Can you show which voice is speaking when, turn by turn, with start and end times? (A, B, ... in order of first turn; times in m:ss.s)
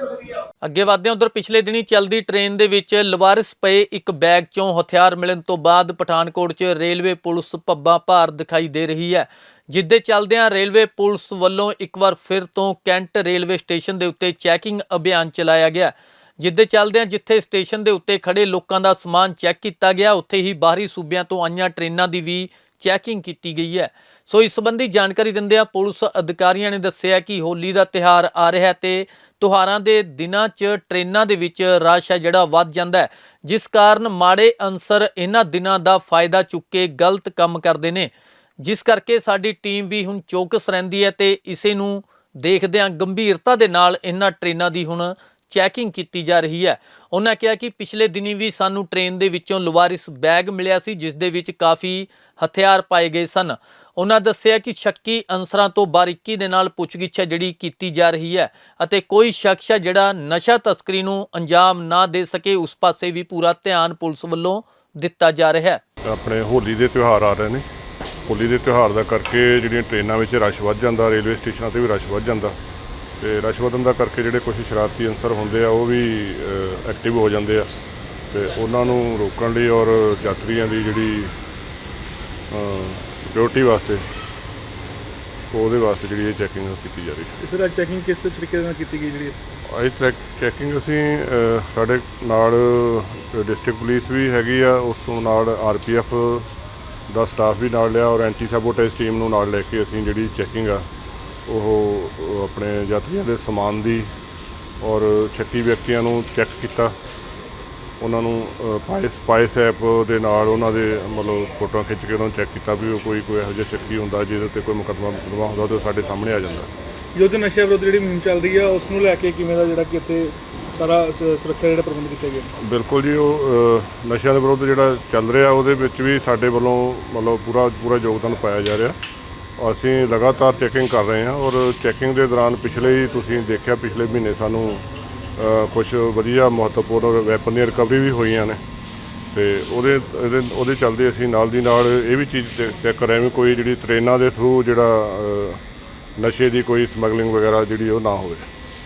0:00.6-0:38.1 A
0:38.6-1:05.8 A
1:06.1-1:07.6 B
1:08.3-1:12.6 B
1:13.2-1:17.7 B
1:18.3-1:21.3 B
1:22.5-1:24.0 B
1:25.5-1:27.4 B
1:27.4-1:29.4 C
1:29.7-1:36.5 B
1:37.1-1:40.8 B
1:41.5-1:44.1 B
1:44.8-1:46.9 B
1:48.0-1:56.7 B
1:57.2-2:02.5 C
2:02.6-2:09.0 B
2:09.6-2:14.8 B
2:15.4-2:18.6 B
2:19.3-2:25.6 B
2:26.2-2:28.5 B